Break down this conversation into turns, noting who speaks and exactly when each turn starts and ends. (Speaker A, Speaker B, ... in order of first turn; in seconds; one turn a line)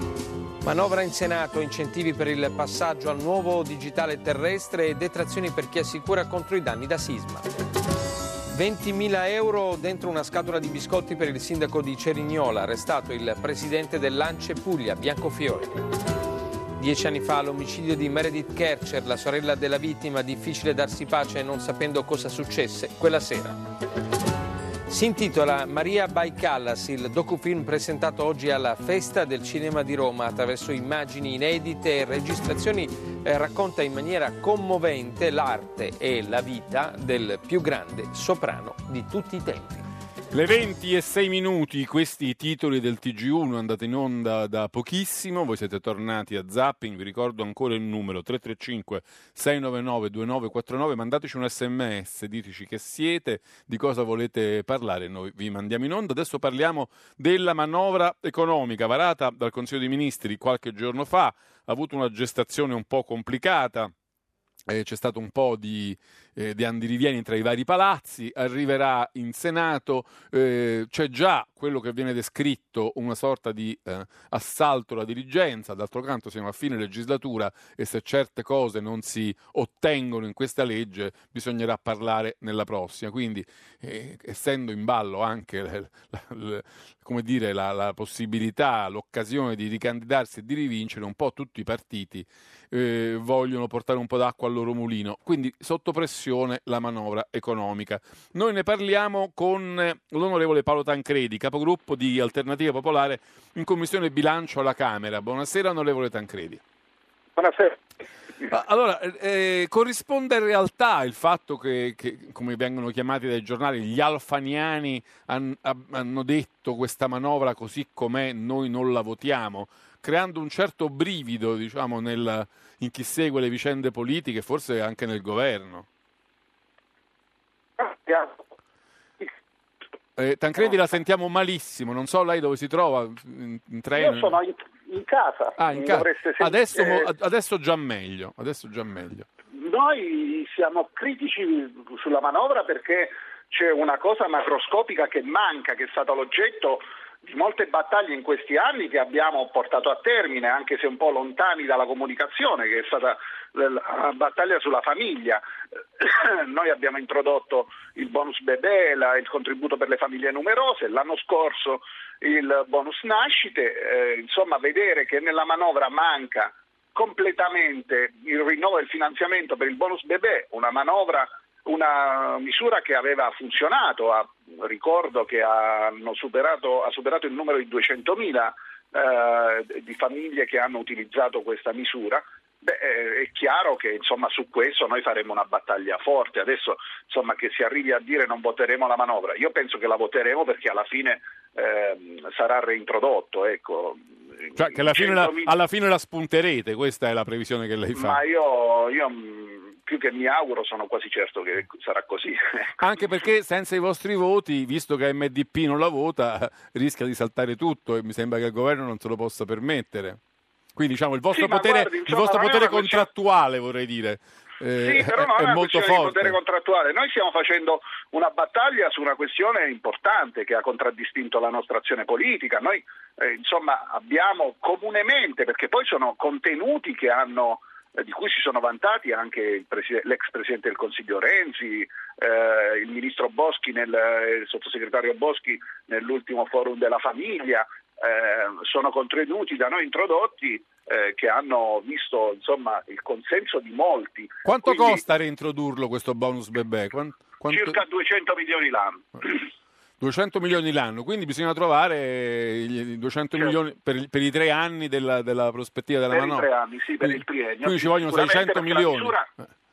Speaker A: 0.6-7.4
Speaker A: 8.6-15.7
Speaker A: 16.8-23.6
Speaker A: 24.9-39.9
Speaker B: 40.3-63.9
Speaker B: 64.7-106.6
Speaker C: 107.4-107.8
Speaker B: 108.5-125.9
Speaker C: 127.8-128.4
Speaker B: 130.2-134.4
Speaker C: 133.9-137.1
Speaker B: 135.6-139.3
Speaker C: 139.5-155.4
Speaker C: 156.0-195.5
Speaker B: 194.6-198.2
Speaker C: 197.9-202.7
Speaker B: 202.8-210.2
Speaker B: 210.8-216.4
Speaker C: 211.3-213.1
Speaker C: 214.8-245.0
Speaker B: 244.4-247.8
Speaker C: 247.5-249.4
Speaker B: 250.0-256.5
Speaker C: 256.1-259.3
Speaker B: 257.0-259.5